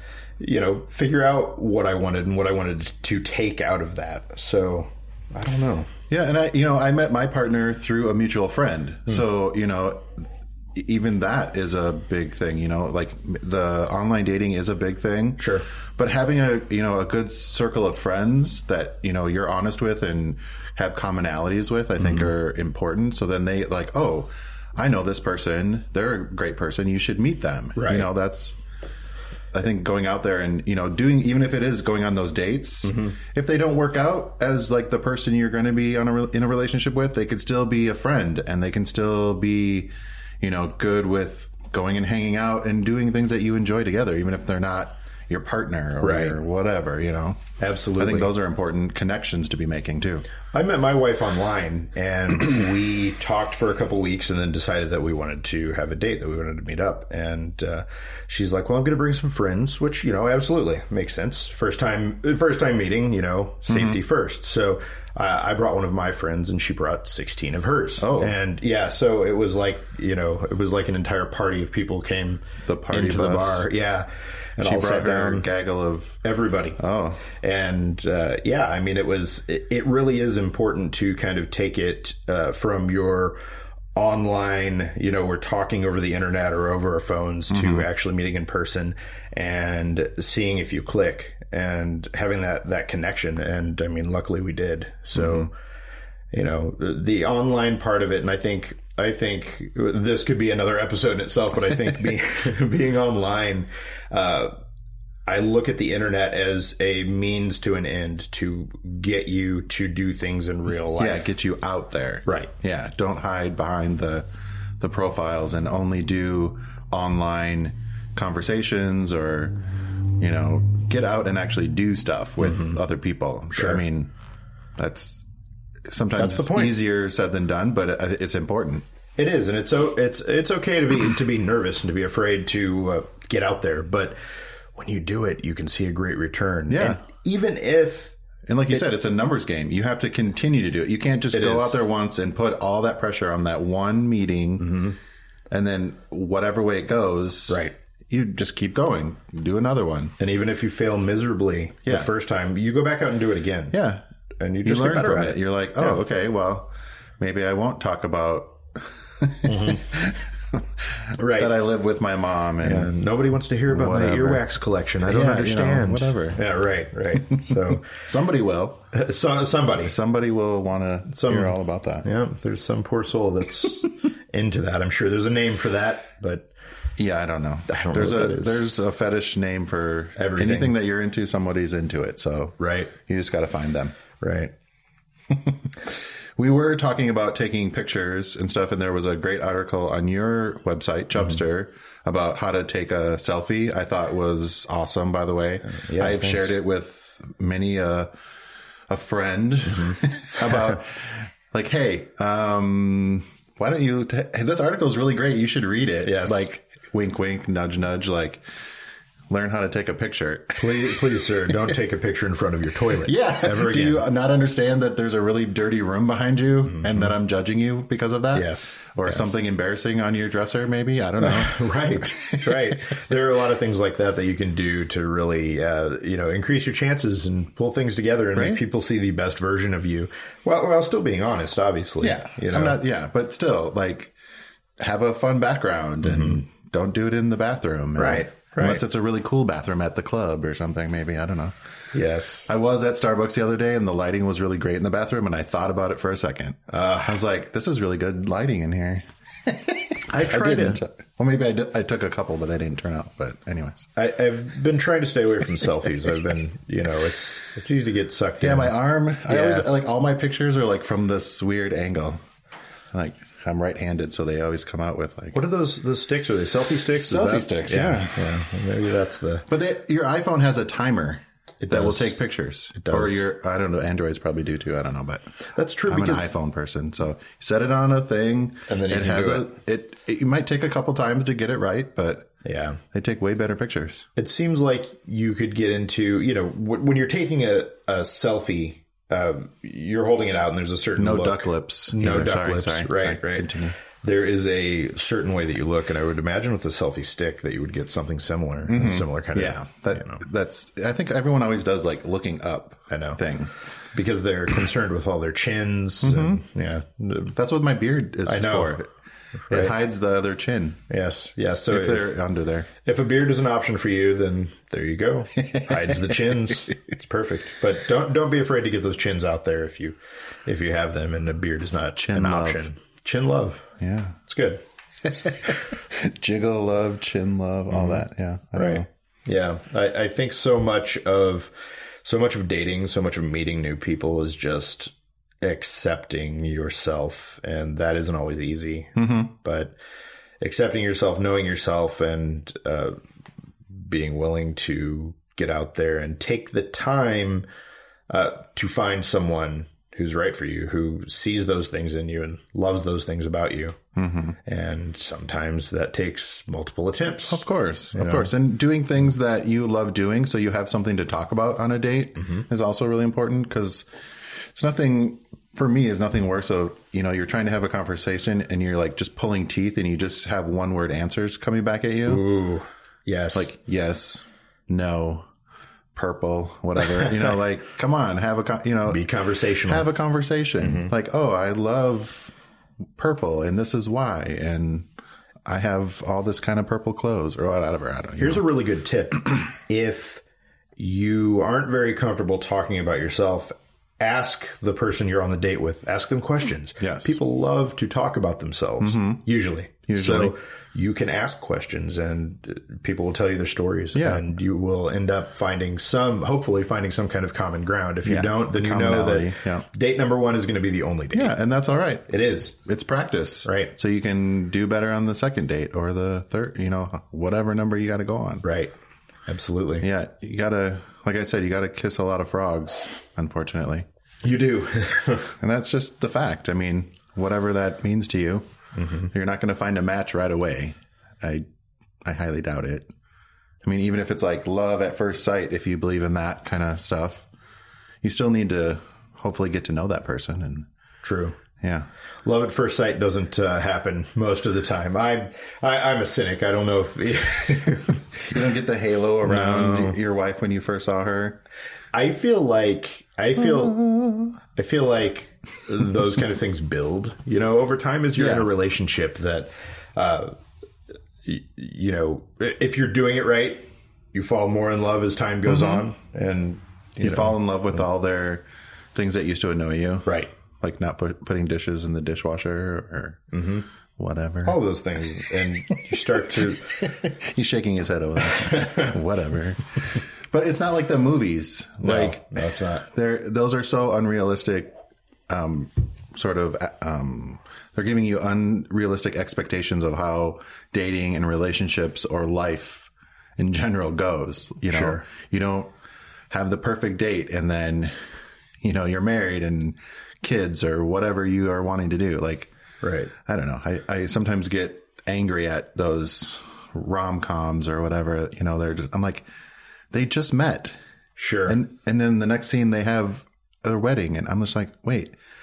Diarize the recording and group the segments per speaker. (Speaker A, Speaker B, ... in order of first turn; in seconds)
Speaker A: 0.4-5.9, 15.4-15.7, 22.0-22.3, 27.8-28.1, 32.8-33.2, 46.0-46.4, 47.6-48.3, 50.5-75.5, 76.2-83.4, 84.0-95.5, 96.3-104.6, 105.3-111.4, 112.3-112.5, 122.4-122.8, 123.5-123.8, 126.2-126.8, 129.2-134.2, 134.8-138.2, 141.3-141.9, 144.6-145.0, 147.5-147.8, 150.2-153.8, 154.4-156.0, 159.4-159.9, 161.2-161.6, 162.6-167.9, 168.9-169.9, 171.1-176.5, 177.7-178.7, 180.2-180.8, 182.6-182.9, 184.2-184.5, 195.6-196.6, 199.7-200.8, 206.0-206.5, 210.6-214.1, 216.7-217.2, 218.3-219.4, 221.2-232.8, 236.0-236.4, 238.0-238.8, 241.9-242.5, 246.7-247.2, 250.1-250.8, 254.0-258.7, 259.3-259.7, 265.3-269.5, 271.6-272.2, 272.8-273.3, 275.5-276.3, 278.7-279.5, 282.4-282.8, 284.2-300.2, 302.9-303.2, 303.9-307.4, 308.3-308.8, 309.5-309.8, 310.9-312.2, 312.8-323.7, 324.3-324.6, 327.7-328.0, 328.6-339.8, 340.4-343.0, 343.7-347.5, 348.1-353.8, 354.4-357.4, 357.9-358.3, 362.2-362.4, 372.1-373.5, 376.8-377.4, 378.9-379.9, 380.6-380.9, 388.2-390.2, 390.8-411.4, 412.1-412.6, 413.4-413.8, 418.4-418.7, 419.3-419.9, 424.2-425.3, 428.8-429.1, 441.0-441.4, 442.2-448.1, 449.2-450.0, 451.9-460.4, 461.2-467.8, 470.1-470.3, 473.3-473.7, 474.4-476.9, 478.2-479.0, 481.8-482.9, 494.7-495.0, 502.8-503.1, 511.2-511.6
Speaker B: 6.1-28.6, 29.5-47.4, 48.0-50.3, 63.7-64.0, 68.0-68.4, 72.6-73.7, 74.6-76.2, 76.8-77.2, 87.5-87.9, 95.2-95.5, 111.0-114.3, 114.8-119.6, 120.2-124.1, 124.8-125.2, 125.9-128.8, 136.7-137.0, 138.5-144.8, 145.5-150.1, 153.7-154.0, 154.7-162.9, 163.7-164.4, 165.0-166.4, 167.3-168.8, 169.8-172.1, 177.0-182.6, 183.1-183.9, 185.3-185.8, 186.4-198.1, 198.9-208.4, 209.3-211.2, 213.0-222.8, 228.4-228.6, 232.0-234.1, 234.8-241.6, 242.5-253.9, 258.4-262.2, 262.9-265.4, 266.9-268.3, 269.5-275.2, 275.9-282.3, 282.9-284.1, 291.0-293.8, 298.7-303.5, 306.0-306.4, 307.4-308.9, 309.5-310.8, 311.7-312.7, 315.4-316.4, 322.0-322.7, 323.8-324.2, 325.0-328.9, 339.0-339.3, 354.0-354.4, 357.3-363.9, 364.5-372.2, 373.4-375.3, 375.9-379.0, 379.7-382.4, 383.0-384.9, 385.5-388.4, 396.8-397.2, 398.8-399.2, 399.9-400.3, 403.9-404.2, 408.0-409.6, 411.1-412.1, 412.6-418.4, 419.8-423.9, 425.4-428.4, 429.1-431.4, 432.1-432.9, 433.6-437.3, 438.0-440.7, 441.6-441.9, 448.2-451.4, 458.2-458.5, 465.5-465.8, 467.0-473.3, 474.0-474.6, 476.8-484.7, 485.3-495.7, 496.3-497.9, 498.6-502.5, 503.3-509.2, 509.9-510.8, 511.5-515.1